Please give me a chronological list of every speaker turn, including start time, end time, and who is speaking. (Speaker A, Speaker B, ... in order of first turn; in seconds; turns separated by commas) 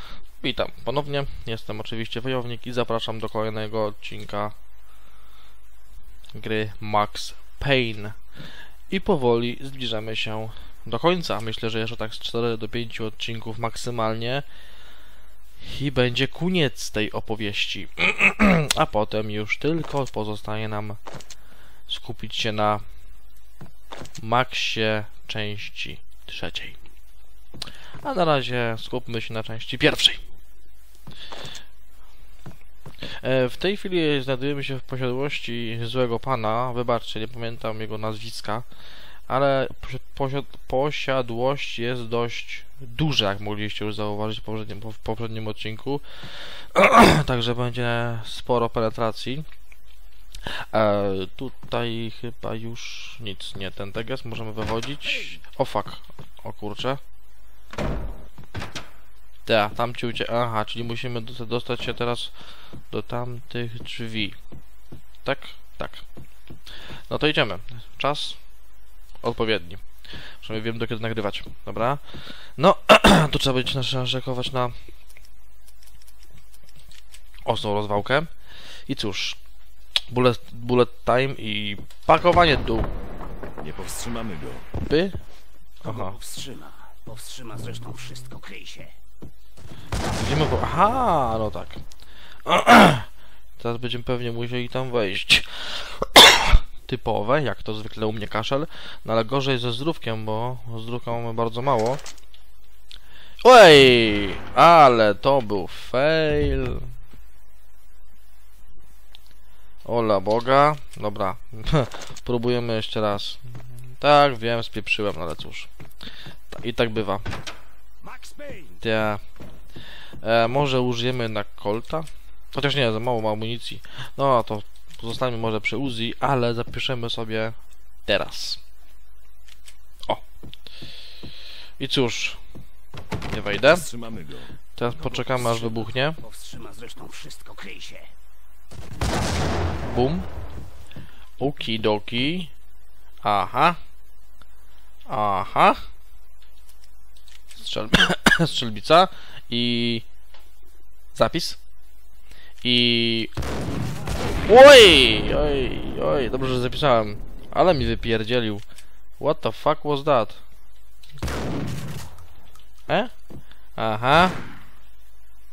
Speaker A: 0.4-4.5, Speaker A: 6.3-8.2, Speaker A: 8.9-14.4, Speaker A: 15.6-21.0, Speaker A: 21.9-22.8, Speaker A: 24.2-26.8, Speaker A: 28.0-30.2, Speaker A: 33.0-38.6, Speaker A: 39.3-49.5, Speaker A: 50.5-57.0, Speaker A: 59.5-62.3, Speaker A: 62.9-64.4, Speaker A: 65.2-66.0, Speaker A: 67.1-68.4, Speaker A: 69.2-69.8, Speaker A: 70.4-74.7, Speaker A: 77.5-78.3, Speaker A: 78.9-79.4, Speaker A: 80.1-82.9, Speaker B: 83.6-84.7, Speaker A: 84.8-85.2, Speaker C: 85.8-88.9, Speaker A: 85.8-86.2, Speaker A: 90.2-91.8, Speaker A: 92.4-93.1, Speaker A: 93.6-102.0, Speaker A: 103.4-106.8, Speaker A: 109.8-113.4, Speaker A: 114.0-115.7, Speaker A: 116.5-117.2, Speaker C: 118.0-118.8, Speaker A: 118.8-119.2, Speaker A: 120.2-128.6, Speaker A: 131.8-132.4, Speaker A: 133.3-133.9, Speaker B: 133.7-134.5, Speaker A: 134.8-136.2, Speaker C: 134.8-138.1, Speaker A: 139.8-140.3, Speaker A: 141.4-142.5, Speaker A: 143.2-143.8, Speaker A: 145.1-145.8, Speaker A: 147.5-150.1, Speaker A: 151.1-151.6, Speaker A: 152.6-153.3, Speaker A: 154.4-158.6, Speaker A: 159.2-160.4, Speaker A: 163.8-164.3